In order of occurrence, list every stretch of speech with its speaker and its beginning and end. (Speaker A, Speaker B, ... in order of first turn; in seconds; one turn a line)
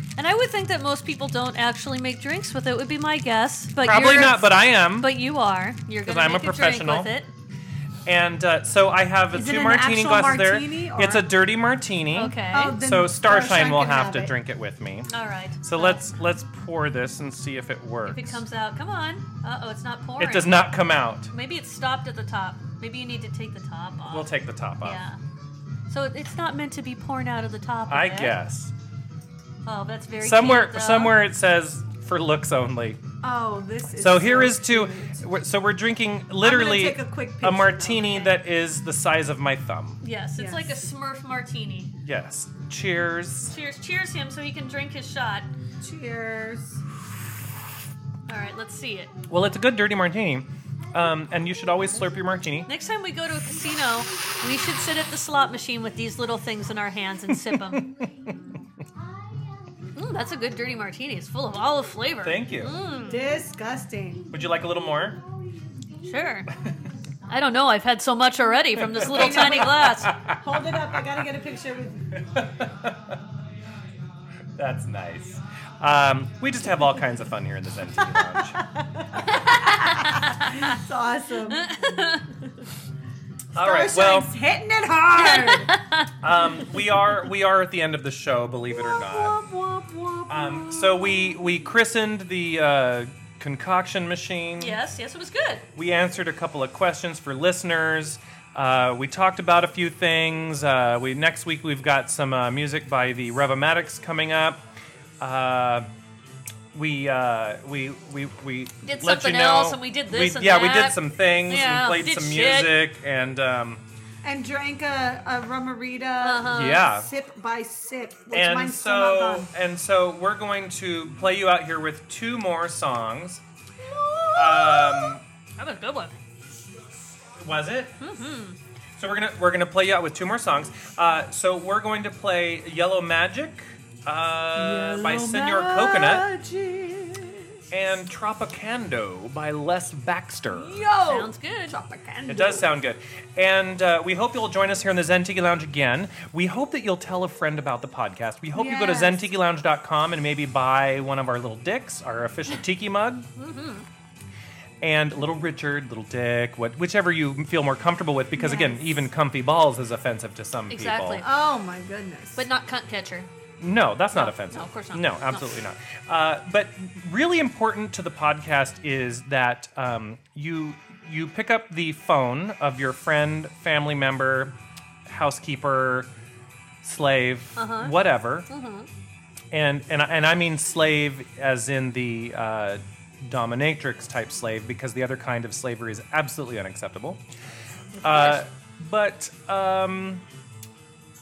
Speaker A: 0.2-7.3
Speaker B: 3.8-5.1
Speaker B: 6.0-7.1
Speaker B: 8.1-18.4
Speaker C: 9.3-11.3
Speaker A: 12.1-12.8
Speaker C: 12.5-14.3
Speaker A: 15.1-16.0
Speaker A: 18.1-20.7
Speaker B: 20.2-21.3
Speaker A: 21.3-24.3
Speaker B: 24.1-25.0
Speaker A: 24.8-25.2
Speaker A: 25.9-28.4
Speaker B: 27.9-28.7
Speaker A: 29.6-31.2
Speaker B: 30.2-33.0
Speaker C: 33.2-35.2
Speaker B: 34.0-40.0
Speaker C: 36.4-38.3
Speaker A: 40.0-41.9
Speaker C: 40.4-40.8
Speaker B: 42.0-43.5
Speaker A: 43.5-45.5
Speaker C: 45.8-46.8
Speaker A: 48.3-49.1
Speaker B: 49.3-52.7
Speaker A: 52.7-57.9
Speaker B: 57.5-57.8
Speaker A: 60.0-63.2
Speaker B: 62.2-62.8
Speaker C: 63.1-64.3
Speaker B: 64.3-65.2
Speaker A: 66.0-66.5
Speaker A: 67.3-70.1
Speaker B: 69.0-70.4
Speaker C: 69.1-72.1
Speaker B: 72.3-73.2
Speaker B: 74.6-78.6
Speaker C: 78.6-81.7
Speaker A: 79.3-80.8
Speaker A: 81.5-82.2
Speaker B: 83.5-84.3
Speaker C: 83.5-85.7
Speaker A: 85.2-86.1
Speaker B: 86.2-89.3
Speaker C: 88.7-91.4
Speaker B: 90.3-94.8
Speaker A: 94.6-95.7
Speaker B: 95.8-104.6
Speaker B: 105.2-105.9
Speaker B: 106.7-113.8
Speaker A: 108.8-112.8
Speaker C: 114.2-119.5
Speaker A: 116.2-116.9
Speaker B: 116.5-117.1
Speaker B: 118.3-123.4
Speaker C: 123.8-125.2
Speaker B: 124.4-125.2
Speaker A: 125.6-126.1
Speaker B: 127.4-128.0
Speaker A: 128.0-128.6
Speaker B: 129.0-136.3
Speaker C: 134.6-137.5
Speaker B: 137.7-140.8
Speaker C: 140.5-142.7
Speaker A: 141.0-141.8
Speaker B: 142.3-153.3
Speaker C: 148.5-149.3
Speaker A: 153.4-153.8
Speaker B: 154.8-161.2
Speaker C: 158.3-158.8
Speaker A: 160.7-161.3
Speaker C: 161.2-162.4
Speaker A: 162.4-163.3
Speaker B: 163.6-174.5
Speaker A: 164.1-165.6
Speaker B: 175.1-176.1
Speaker B: 176.8-178.5
Speaker A: 177.6-177.9
Speaker A: 178.5-178.9
Speaker B: 179.5-187.2
Speaker B: 188.0-190.2
Speaker A: 188.1-188.4